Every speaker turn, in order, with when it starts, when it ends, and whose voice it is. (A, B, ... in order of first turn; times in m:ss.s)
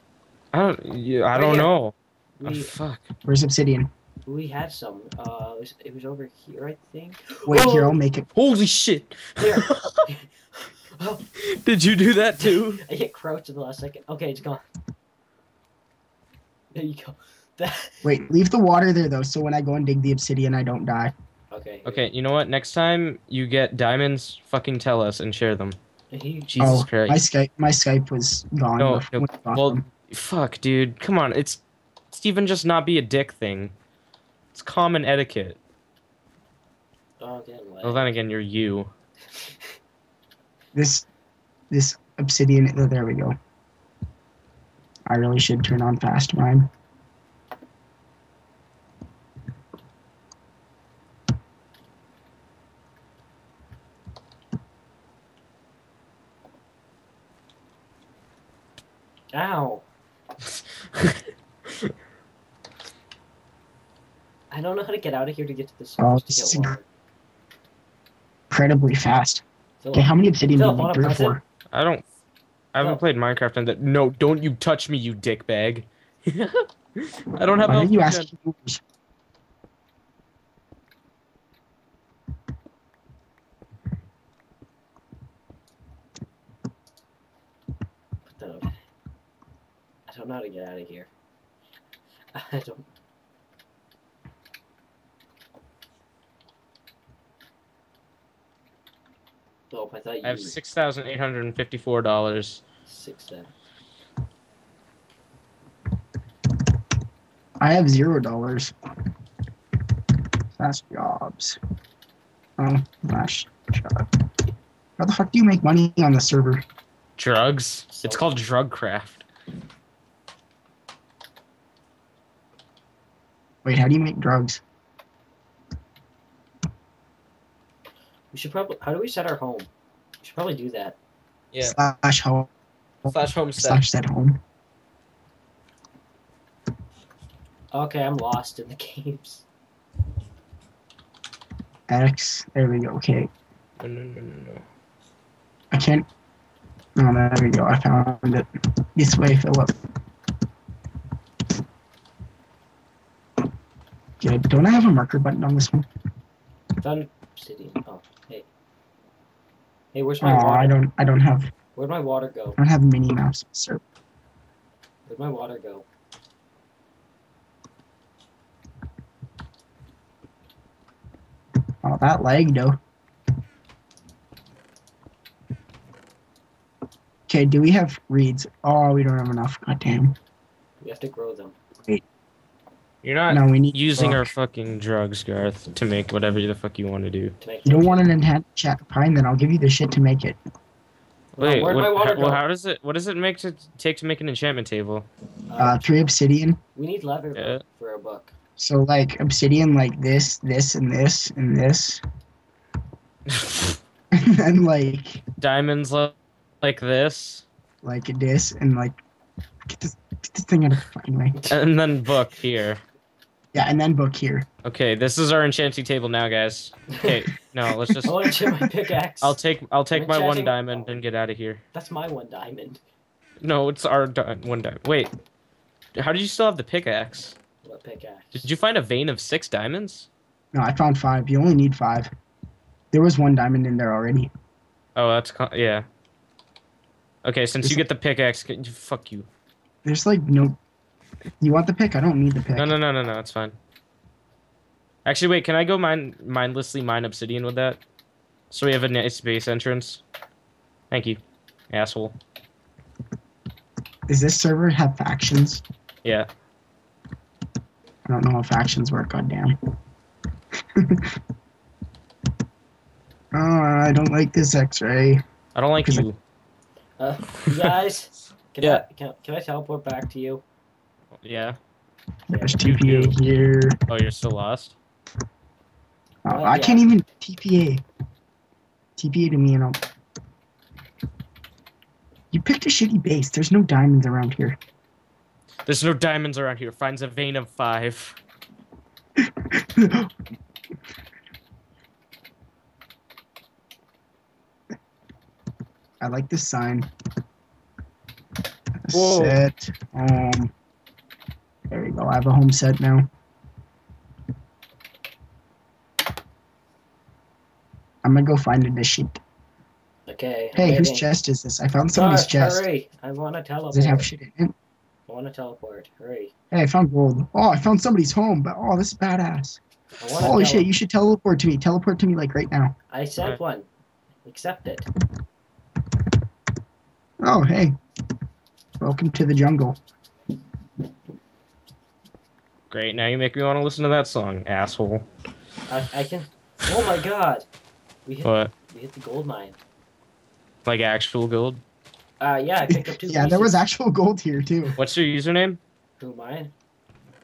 0:00.5-0:03.1 A
0:01.3-0:01.7 B
0:02.4-0:02.7 B
0:03.2-0:03.9 C
0:04.2-0:07.8 B
0:07.5-0:08.3 C
0:07.6-0:10.1 A
0:09.4-0:11.3 B
0:11.4-0:12.8 A
0:12.4-0:14.6 B
0:16.7-0:18.0 B
0:18.0-0:21.1 C
0:21.5-0:22.0 B
0:21.8-0:25.8 A
0:26.1-0:26.9 B
0:26.5-0:27.2 A
0:26.6-0:29.8 C
0:28.8-0:31.6 A
0:32.1-0:33.7 A
0:34.5-0:35.6 A
0:37.2-0:38.1 B
0:37.8-0:38.9 A
0:40.7-0:41.0 C
0:41.7-0:43.4 C
0:45.1-0:46.7 C
0:59.3-0:59.8 B
1:00.5-1:01.9 A
1:04.5-1:06.8 B
1:06.0-1:06.8 C
1:08.5-1:11.4 C
1:09.8-1:11.4 B
1:11.7-1:12.0 A
1:12.7-1:18.3 A
1:17.6-1:18.8 C
1:28.2-1:28.7 B
1:30.1-1:31.1 B
1:32.3-1:32.9 B
1:39.7-1:40.6 B
1:40.2-1:42.6 A
1:42.8-1:43.5 B
1:47.6-1:48.7 C
1:50.6-1:51.6 C
1:52.6-1:54.1 C
1:55.0-1:56.6 C
1:57.2-1:59.3 A
2:03.6-2:04.6 C
2:08.3-2:11.0 B
2:11.5-2:11.8 A
2:11.6-2:12.5 C
2:13.0-2:14.4 C
2:13.1-2:13.8 A
2:17.7-2:19.4 B
2:21.9-2:23.3 C
2:23.8-2:24.6 A
2:25.7-2:26.1 C
2:27.0-2:29.7 C
2:34.2-2:35.9 C
2:36.8-2:38.5 B
2:39.9-2:40.8 B
2:40.2-2:41.5 C
2:41.7-2:42.6 B
2:42.6-2:43.8 C
2:45.1-2:45.8 B
2:51.8-2:52.8 C
2:57.3-3:00.2 C
3:00.8-3:01.5 B
3:03.0-3:07.3 A
3:03.3-3:04.3 C
3:07.4-3:08.0 B
3:07.6-3:10.4 C
3:11.3-3:12.4 B
3:11.4-3:15.1 A
3:15.5-3:15.8 B
3:15.6-3:16.6 C
3:16.7-3:18.3 B
3:17.3-3:17.6 A
3:18.6-3:22.0 C
3:23.3-3:23.8 A
3:24.1-3:25.2 C
3:25.4-3:27.4 A
3:27.8-3:29.0 C
3:29.7-3:31.5 C
3:31.5-3:32.8 A
3:33.5-3:34.5 C
3:34.6-3:38.3 A
3:38.0-3:39.4 B
3:39.2-3:41.6 A
3:39.9-3:41.0 B
3:41.7-3:42.8 B
3:43.4-3:45.1 A
3:45.9-3:47.4 A
3:47.6-3:48.5 B
3:48.3-3:50.1 A
3:50.5-3:52.1 C
3:52.9-3:54.3 C
3:55.0-3:55.8 A
3:57.2-3:59.3 A
3:59.8-4:00.6 C
4:01.4-4:02.7 C
4:02.6-4:03.6 A
4:05.0-4:07.8 A
4:08.5-4:10.0 A
4:10.9-4:12.2 A
4:14.1-4:15.6 C
4:18.1-4:19.6 C
4:20.8-4:21.1 C
4:23.3-4:25.2 C
4:25.5-4:26.2 A
4:27.0-4:30.4 B
4:27.4-4:27.7 A
4:31.2-4:31.6 A
4:32.3-4:33.2 B
4:32.3-4:33.8 C
4:32.7-4:33.0 A
4:33.9-4:34.8 A
4:36.2-4:37.8 C
4:36.3-4:36.8 B
4:39.0-4:39.8 C
4:42.3-4:44.6 C
4:45.6-4:48.2 A
4:49.2-4:50.1 C
4:56.0-4:56.9 C
4:58.8-5:00.5 C
4:58.9-4:59.4 A
5:01.7-5:03.1 C
5:08.0-5:09.2 C
5:10.1-5:11.0 B
5:10.6-5:12.6 C
5:11.9-5:14.1 B
5:13.7-5:14.5 C
5:15.1-5:16.3 B
5:16.5-5:19.6 C
5:20.0-5:20.7 B
5:20.2-5:22.7 C
5:22.9-5:23.6 B
5:24.2-5:24.9 B
5:27.2-5:27.8 C
5:28.8-5:29.8 C
5:32.7-5:35.0 A
5:35.7-5:37.4 B
5:38.0-5:39.6 B
5:38.2-5:38.5 A
5:40.6-5:41.6 A
5:42.2-5:43.5 B
5:42.7-5:44.8 C
5:44.8-5:45.6 A
5:46.0-5:46.5 B